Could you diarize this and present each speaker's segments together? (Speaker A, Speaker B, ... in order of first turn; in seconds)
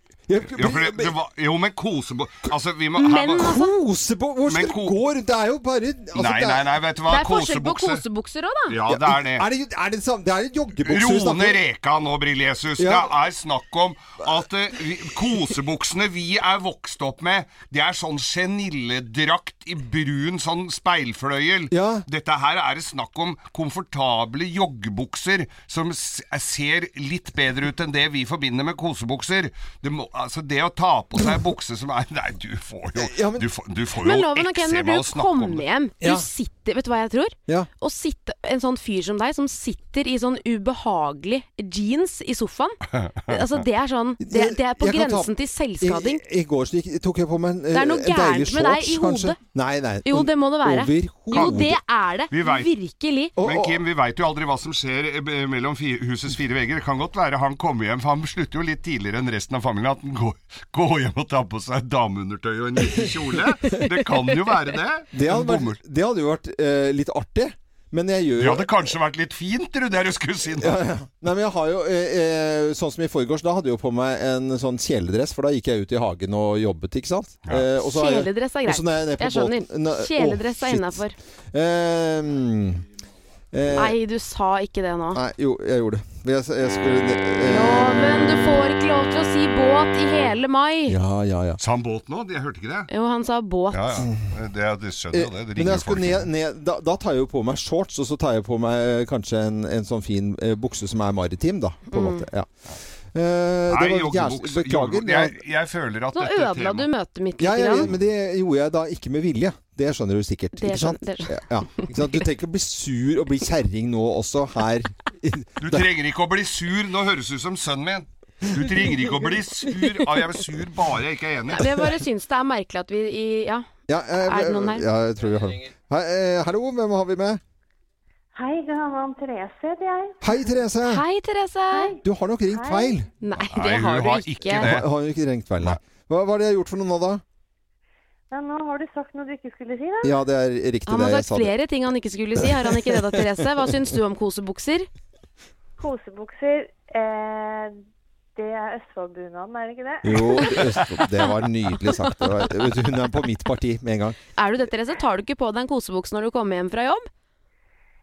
Speaker A: 0.3-1.1, 3.4-6.6, 8.9-11.6, 12.8-13.1, 21.7-22.1, 33.0-33.5, 36.0-36.3, 44.2-51.8, 53.4-53.8, 65.1-68.7, 70.6-82.8, 83.5-84.0, 85.1-88.6, 90.9-91.6, 95.1-102.5, 103.1-105.4, 107.4-115.8, 123.9-127.4, 130.2-131.0, 132.0-133.1, 134.5-137.2, 140.0-141.5, 142.6-143.2, 150.0-154.2
Speaker B: 0.5-3.6, 4.5-5.0, 6.2-8.0, 8.7-9.4, 10.9-35.6, 51.3-51.6, 52.3-52.7, 53.4-65.8, 68.4-70.8, 91.6-92.9, 93.7-96.3, 103.7-106.9, 115.6-121.7, 133.5-134.9
Speaker C: 3.0-3.7, 7.1-8.8, 34.0-46.2, 47.7-49.4, 50.1-53.3, 77.8-81.2, 83.8-85.2, 87.5-91.0, 92.9-94.0, 101.9-102.2, 106.1-107.9, 110.6-111.8, 121.6-123.7, 124.2-124.8, 130.8-131.9, 133.2-134.7, 140.9-144.9, 154.4-157.1
Speaker D: 128.3-130.2, 132.6-132.9, 138.3-140.1, 145.8-147.7, 148.4-150.1